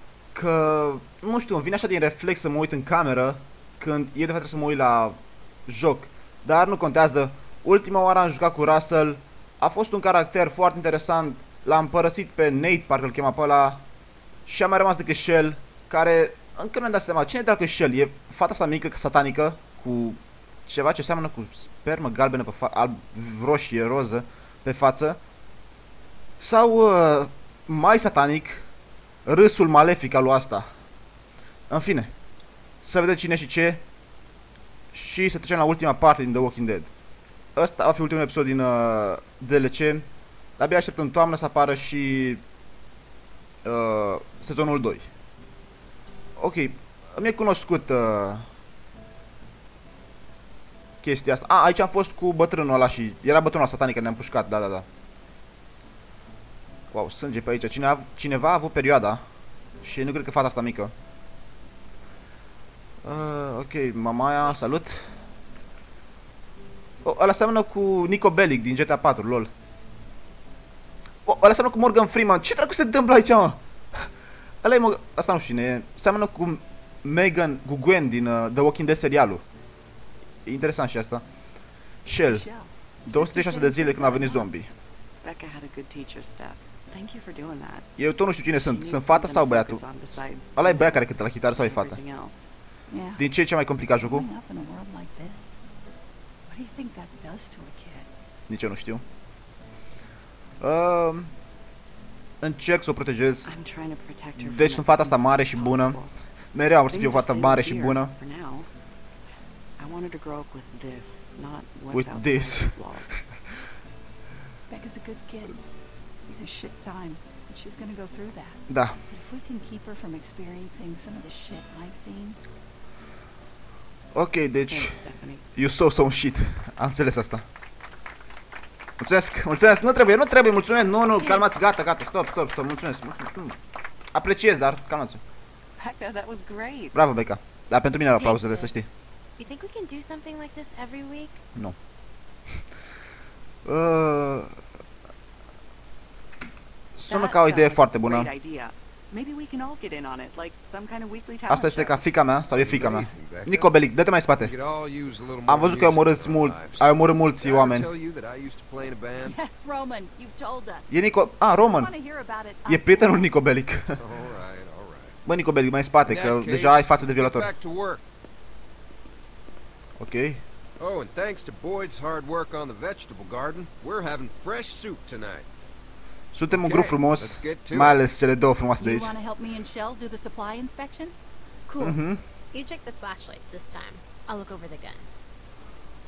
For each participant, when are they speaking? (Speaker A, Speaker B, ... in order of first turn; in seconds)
Speaker A: 0.3-13.8, 14.5-25.2, 26.4-28.6, 29.2-30.7, 31.7-32.1, 32.8-33.8, 34.9-36.9, 37.6-40.1, 40.6-42.4, 43.6-45.1, 46.4-48.5, 51.0-54.9, 56.9-59.2, 59.8-60.9, 63.0-65.2, 67.0-69.5, 71.2-74.1, 74.6-79.4, 80.5-81.2, 82.1-82.5, 83.1-84.7, 88.0-89.9, 90.5-92.0, 93.2-94.3, 98.5-99.0, 100.6-101.3, 102.4-103.5, 104.4-106.0, 106.5-108.1, 111.9-112.8, 118.7-119.0, 124.1-125.0, 125.5-127.4, 129.0-133.6, 134.1-135.2, 136.9-138.9, 143.7-144.6, 146.9-148.3, 151.5-154.5, 155.5-157.9, 160.9-161.9, 162.7-164.0, 165.3-167.5, 170.0-170.4, 176.3-179.1, 181.8-182.2
Speaker B: 82.3-84.5, 92.9-93.2, 94.0-95.5, 96.5-98.1, 114.7-115.6, 116.3-122.4, 159.2-163.3, 178.8-181.2
Speaker C: 85.2-87.9, 88.5-92.5, 103.4-106.1, 106.9-108.7, 109.8-113.3, 124.7-125.4, 135.8-137.0, 147.1-152.1
Speaker D: 138.1-138.8, 139.4-141.4, 181.7-182.0, 182.5-185.2
Speaker E: 152.5-153.8, 154.4-159.4, 164.0-165.2, 166.1-168.0, 170.8-175.5, 176.5-178.0